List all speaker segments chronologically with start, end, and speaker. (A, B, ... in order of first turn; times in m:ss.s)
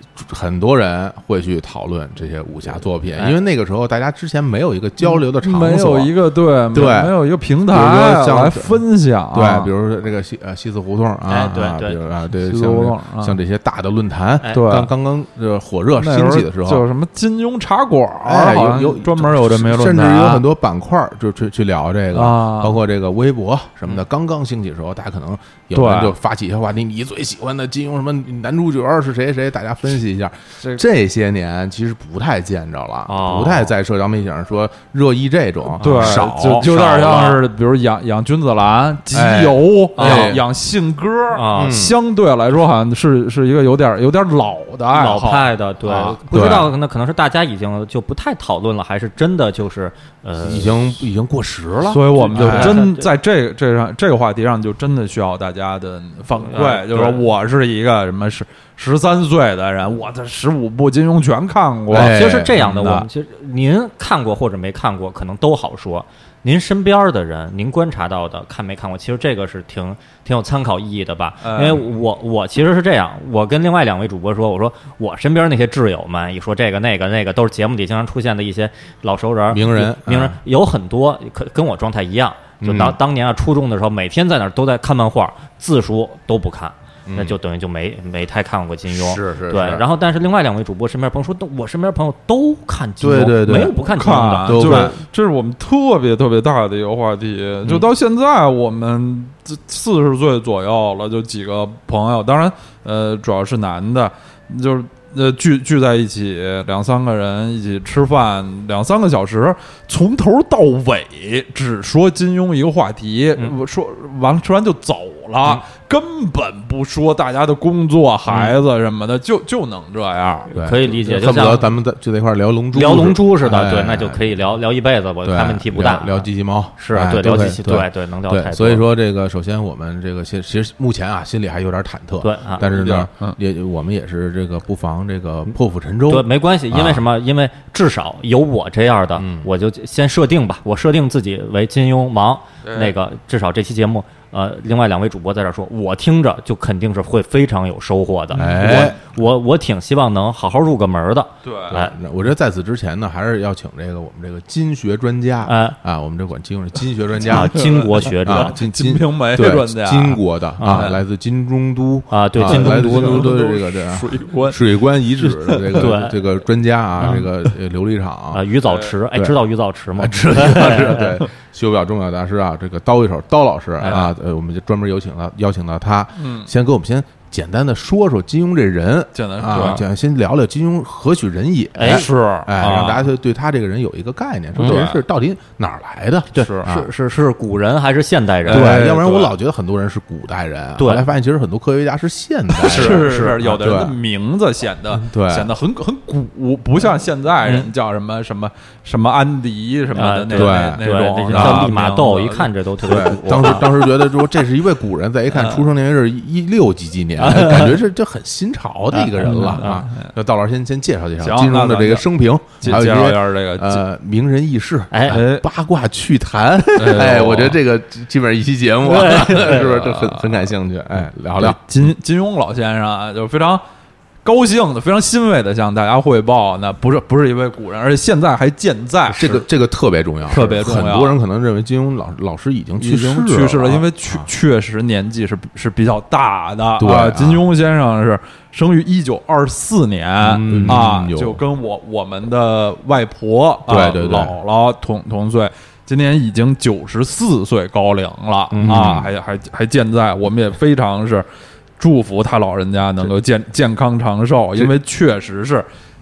0:00.2-0:06.1 A
0:05.0-0:09.7 B
0:06.7-0:07.2 A
0:07.7-0:16.9 A
0:11.3-0:12.0 C
0:12.3-0:13.4 B
0:14.5-0:14.9 B
0:16.0-0:20.4 B
0:18.2-0:36.7 A
0:22.1-0:22.8 B
0:25.7-0:26.2 B
0:33.1-0:33.7 C
0:35.8-0:37.4 C
0:35.8-0:46.1 B
0:39.1-0:40.4 A
0:40.0-0:40.4 C
0:41.3-0:41.8 C
0:41.5-0:42.0 A
0:44.9-0:50.9 C
0:46.3-0:46.7 A
0:50.4-0:52.8 A
0:51.9-1:03.1 B
0:52.2-0:53.1 C
0:56.4-0:57.2 C
1:01.9-1:02.7 A
1:01.9-1:34.9 C
1:11.4-1:11.8 B
1:19.5-1:20.4 A
1:22.6-1:23.0 A
1:27.1-1:27.4 A
1:28.9-1:29.8 A
1:33.0-1:33.8 A
1:33.8-2:00.5 B
1:34.4-1:35.0 A
1:58.3-1:58.6 C
2:00.5-2:01.6 C
2:00.6-2:04.4 A
2:02.7-2:08.9 C
2:05.2-2:17.0 A
2:12.2-2:12.6 C
2:12.6-2:13.4 B
2:16.1-2:32.0 C
2:19.2-2:19.5 A
2:22.6-2:22.9 B
2:28.3-2:29.0 A
2:28.4-2:28.8 B
2:31.4-2:31.8 B
2:31.7-2:48.4 A
2:35.4-2:35.8 C
2:37.2-2:38.6 C
2:37.3-2:41.0 B
2:42.1-2:43.3 C
2:42.4-2:44.6 B
2:45.2-2:45.9 B
2:45.7-2:46.2 C
2:48.3-2:51.2 C
2:48.7-2:48.9 B
2:50.0-3:06.9 A
2:53.8-2:54.1 C
2:56.2-2:56.5 B
2:59.1-2:59.9 B
3:01.8-3:02.1 C
3:01.8-3:03.1 B
3:04.6-3:05.0 B
3:04.6-3:04.9 C
3:06.3-3:08.8 C
3:06.4-3:06.7 B
3:08.5-3:09.4 B
3:08.5-3:14.0 A
3:10.8-3:11.1 C
3:12.6-3:22.5 B
3:12.6-3:13.6 C
3:14.9-3:15.5 A
3:17.4-3:17.7 C
3:19.9-3:23.7 C
3:20.3-3:21.7 A
3:22.8-3:41.6 A
3:25.3-3:25.6 B
3:27.2-3:27.8 C
3:28.9-3:29.9 C
3:29.2-3:30.1 B
3:31.2-3:32.1 B
3:32.6-3:33.8 B
3:34.9-3:35.2 C
3:35.1-3:35.5 B
3:36.8-3:37.6 B
3:38.8-3:39.7 C
3:39.4-3:40.4 B
3:41.4-3:43.6 B
3:44.2-3:49.4 B
3:49.1-3:54.3 A
3:50.3-3:51.2 B
3:52.8-4:11.3 B
3:56.8-3:57.4 A
4:00.2-4:01.4 A
4:03.7-4:04.4 A
4:08.6-4:09.1 A
4:11.8-4:15.7 B